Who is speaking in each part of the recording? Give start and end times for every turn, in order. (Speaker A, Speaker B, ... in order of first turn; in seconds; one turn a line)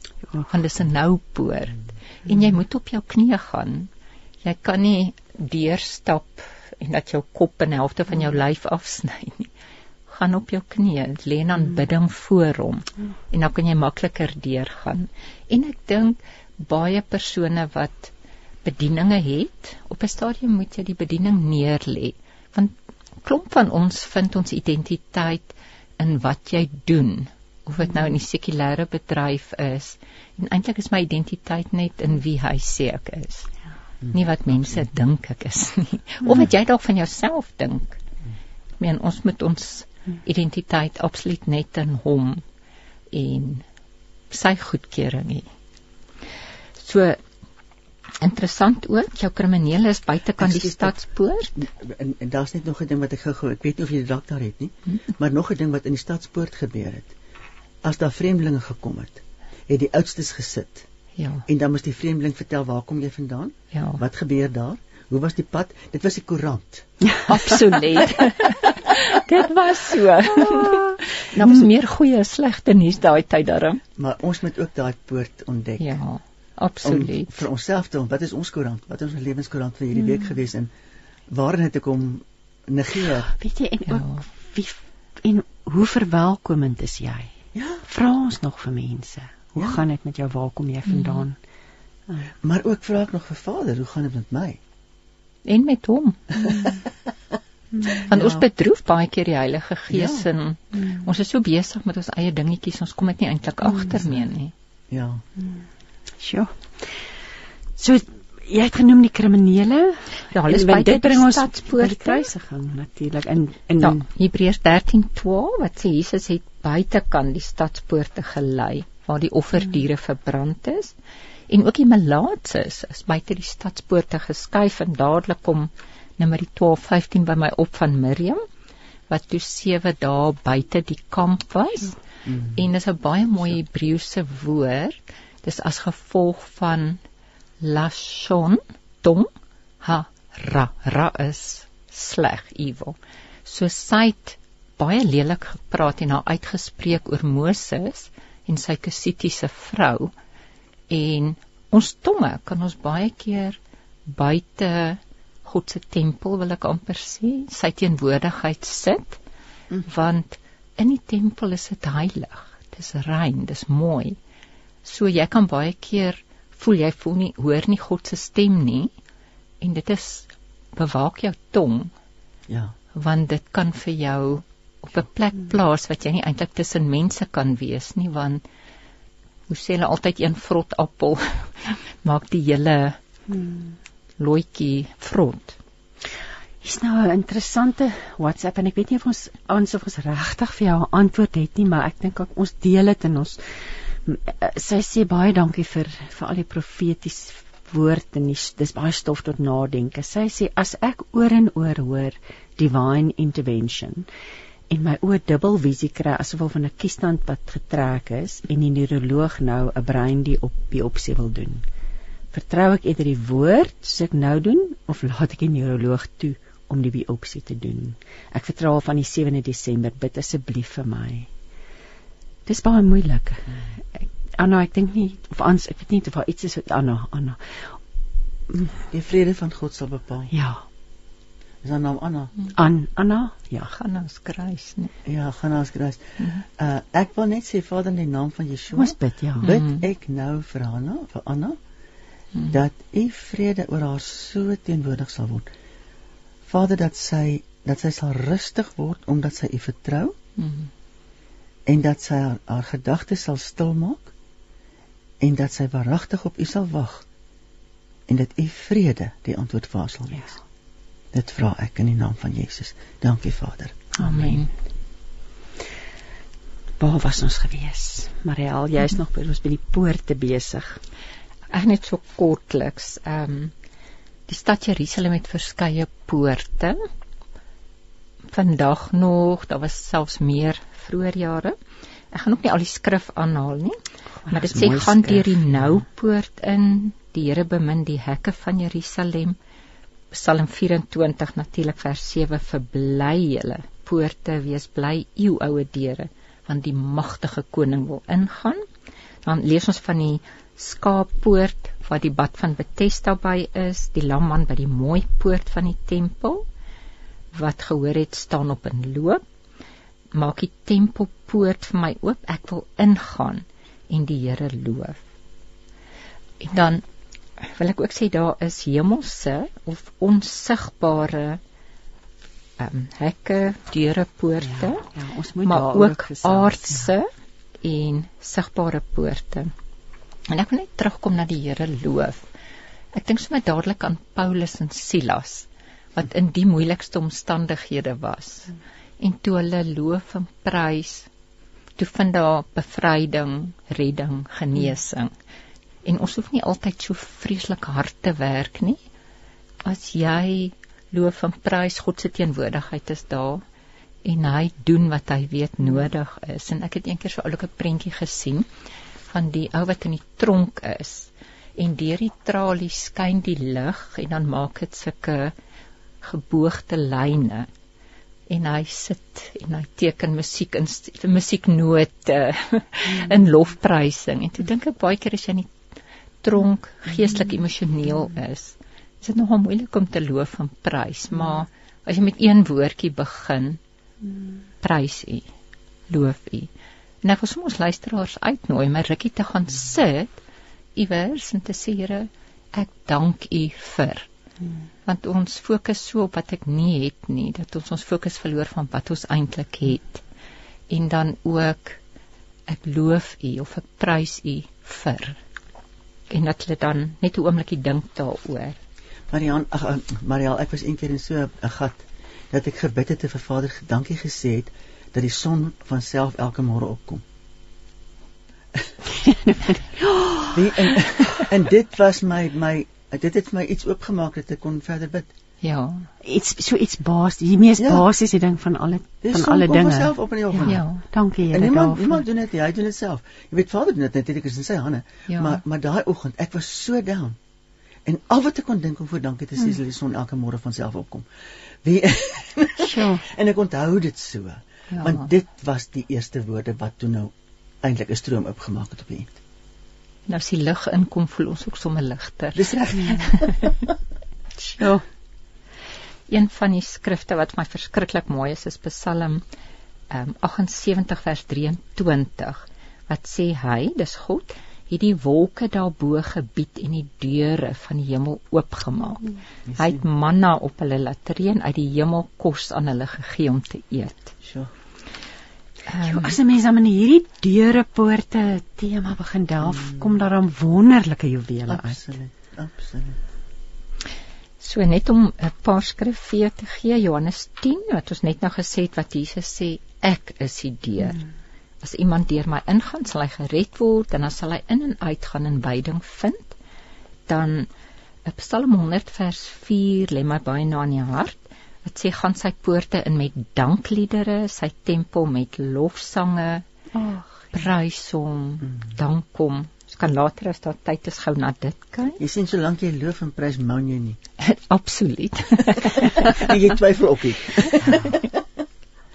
Speaker A: 0.5-3.9
Speaker A: 4.4-9.5
Speaker A: 10.1-18.1
Speaker A: 18.6-33.5
Speaker A: 34.1-38.0
Speaker A: 38.8-42.4
Speaker A: 43.1-43.6
Speaker A: 44.3-45.5
Speaker A: 46.8-47.2
Speaker A: 48.2-51.6
Speaker B: 50.4-51.0
Speaker B: 51.6-57.1
Speaker B: 57.8-60.9
Speaker A: 61.2-61.5
Speaker B: 61.5-66.9
Speaker A: 63.7-64.0
Speaker C: 67.0-67.3
Speaker A: 67.3-73.8
Speaker C: 70.4-71.5
Speaker B: 74.0-76.0
Speaker A: 75.8-77.5
Speaker B: 76.8-80.7
Speaker B: 81.3-83.3
Speaker C: 83.3-87.3
Speaker A: 83.9-84.2
Speaker B: 87.5-87.8
Speaker C: 87.9-91.4
Speaker B: 89.5-89.8
Speaker A: 90.9-91.2
Speaker B: 92.4-94.6
Speaker A: 95.5-96.4
Speaker C: 97.7-98.3
Speaker A: 98.0-104.5
Speaker B: 99.9-100.2
Speaker B: 104.9-105.2
Speaker C: 106.2-106.9
Speaker C: 107.8-114.0
Speaker A: 110.3-112.3
Speaker A: 113.8-120.9
Speaker A: 121.5-128.4
Speaker A: 129.1-132.0
Speaker B: 132.3-132.7
Speaker A: 132.5-137.0
Speaker A: 137.6-139.3
Speaker A: 139.8-150.1
Speaker A: 150.9-159.2
Speaker A: 159.8-164.2
Speaker A: 164.8-168.9
Speaker A: 169.6-171.9
Speaker B: 172.5-172.7
Speaker A: 172.9-178.4
Speaker A: 179.5-183.0
Speaker C: 183.3-183.8
Speaker A: 184.2-185.6
Speaker C: 186.6-193.4
Speaker C: 194.1-204.1
Speaker C: 204.7-211.7
Speaker C: 212.3-221.3
Speaker C: 222.5-223.6
Speaker C: 224.4-227.4
Speaker C: 228.5-228.8
Speaker B: 228.9-230.3
Speaker C: 230.3-230.6
Speaker B: 231.6-232.4
Speaker C: 232.5-233.7
Speaker A: 233.7-234.9
Speaker B: 235.1-241.6
Speaker C: 238.8-239.5
Speaker A: 239.4-239.8
Speaker B: 242.5-245.5
Speaker B: 246.5-250.2
Speaker A: 250.4-250.7
Speaker B: 251.7-254.1
Speaker B: 255.2-257.1
Speaker B: 258.1-260.4
Speaker B: 261.1-263.9
Speaker C: 264.0-264.4
Speaker A: 264.0-264.5
Speaker C: 266.8-270.8
Speaker A: 271.5-273.5
Speaker A: 274.3-276.8
Speaker A: 278.3-281.6
Speaker A: 282.1-283.8
Speaker C: 284.3-285.4
Speaker A: 284.3-289.4
Speaker A: 290.1-298.6
Speaker A: 299.2-306.5
Speaker A: 307.3-309.2
Speaker A: 310.1-315.0
Speaker A: 316.4-316.8
Speaker A: 317.4-321.4
Speaker A: 322.6-324.8
Speaker C: 324.4-326.9
Speaker A: 325.4-327.1
Speaker A: 327.6-329.5
Speaker A: 330.3-332.2
Speaker A: 332.9-341.1
Speaker A: 341.8-345.1
Speaker A: 345.9-348.8
Speaker A: 349.6-353.4
Speaker A: 354.1-358.5
Speaker A: 359.1-365.3
Speaker A: 366.0-367.5
Speaker A: 368.3-375.5
Speaker A: 376.2-383.6
Speaker A: 384.6-385.3
Speaker A: 385.9-386.5
Speaker A: 387.0-390.2
Speaker A: 390.8-394.1
Speaker A: 394.9-400.0
Speaker A: 400.7-401.8
Speaker A: 402.5-405.2
Speaker A: 406.1-408.6
Speaker B: 409.1-417.0
Speaker C: 418.9-420.7
Speaker B: 420.3-425.1
Speaker A: 425.4-425.9
Speaker C: 426.0-432.0
Speaker B: 427.6-427.9
Speaker B: 429.0-430.6
Speaker A: 430.4-430.8
Speaker B: 431.3-437.2
Speaker A: 435.1-435.4
Speaker B: 437.9-441.1
Speaker B: 441.6-449.2
Speaker C: 442.6-443.0
Speaker A: 444.7-445.1
Speaker A: 450.1-453.5
Speaker B: 452.4-453.5
Speaker C: 454.4-454.8
Speaker A: 456.1-459.2
Speaker A: 459.9-474.1
Speaker B: 469.5-469.8
Speaker B: 474.2-474.5
Speaker A: 475.7-476.2
Speaker C: 475.8-481.8
Speaker B: 479.5-479.9
Speaker B: 481.5-483.0
Speaker A: 484.4-491.0
Speaker A: 491.6-496.3
Speaker A: 497.1-497.5
Speaker A: 498.1-506.4
Speaker C: 506.7-507.4
Speaker A: 507.3-512.0
Speaker B: 512.0-514.0
Speaker A: 514.2-516.2
Speaker B: 516.0-518.0